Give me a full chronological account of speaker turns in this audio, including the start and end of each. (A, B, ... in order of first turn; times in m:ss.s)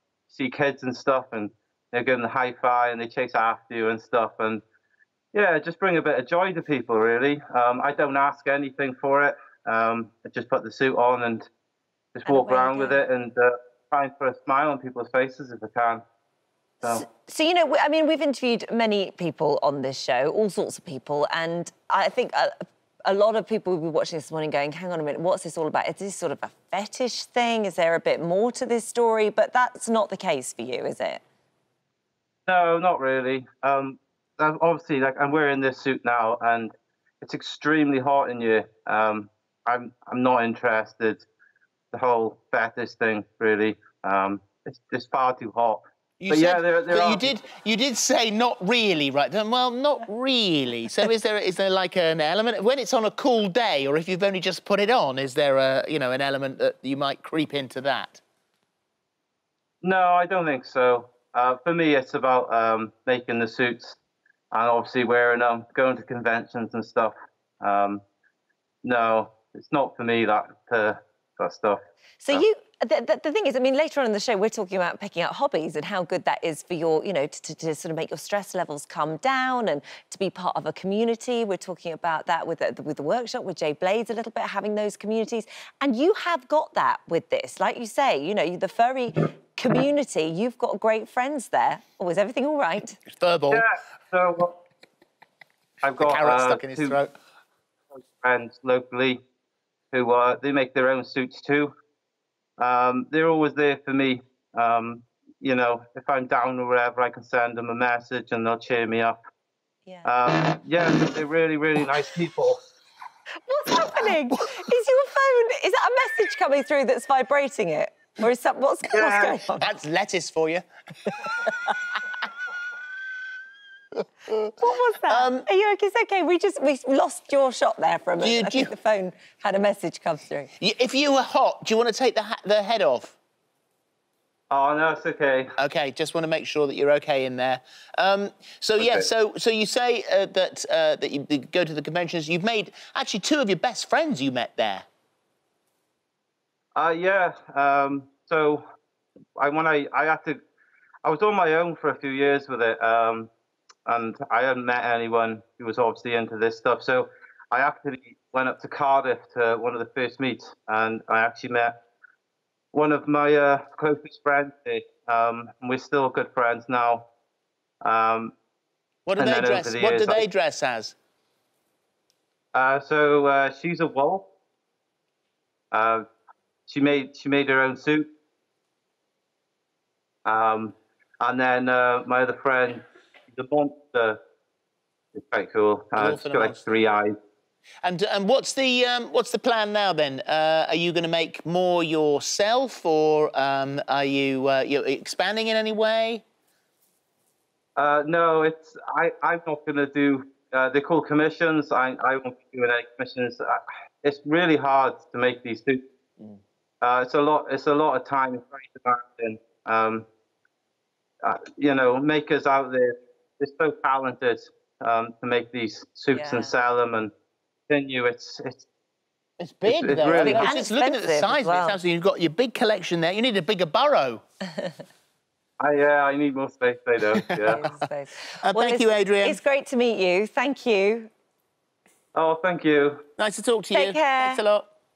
0:00.3-0:04.6 A
0:05.3-0:11.4 A
0:12.2-0:16.0 A
0:12.2-0:13.0 B
0:16.8-0:22.5 B
0:23.0-0:31.2 B
0:32.5-0:41.2 A
0:41.9-0:47.4 A
0:46.2-0:58.2 C
0:59.8-1:04.0 A
1:04.5-1:08.0 A
1:08.8-1:12.4 A
1:12.2-1:33.0 B
1:33.1-1:33.6 C
1:33.5-1:34.5 A
1:35.8-1:37.0 A
1:36.0-1:37.1 C
1:37.9-1:39.2 A
1:39.9-1:41.7 A
1:42.6-1:49.2 A
1:50.0-1:52.6 A
1:53.4-1:59.7 B
1:58.9-1:59.4 A
1:59.6-2:00.6 C
2:04.3-2:05.4 C
2:04.6-2:10.5 B
2:08.2-2:08.7 C
2:10.6-2:13.2 C
2:14.5-2:15.5 A
2:15.6-2:24.8 C
2:18.8-2:19.1 A
2:26.7-2:28.6 A
2:29.4-2:30.4 A
2:31.0-2:33.3 A
2:33.8-2:41.8 A
2:42.7-2:47.0 A
2:47.8-2:48.3 A
2:49.0-2:50.9 C
2:49.2-2:50.2 A
2:52.5-2:54.2 A
2:55.7-2:56.0 A
2:56.7-2:58.1 A
3:00.2-3:04.2 A
3:05.1-3:07.1 A
3:06.0-3:06.7 C
3:07.8-3:16.2 C
3:17.8-3:25.8 A
3:26.8-3:30.0 A
3:31.2-3:37.1 A
3:36.1-3:36.5 B
3:37.7-3:38.6 A
3:39.4-3:44.2 C
3:39.6-3:40.5 A
3:40.1-3:41.8 B
3:45.6-3:47.6 A
3:47.1-3:47.8 C
3:47.4-3:51.1 B
3:48.4-3:49.4 C
3:52.1-3:53.0 A
3:53.2-3:54.7 C
3:53.7-3:54.4 B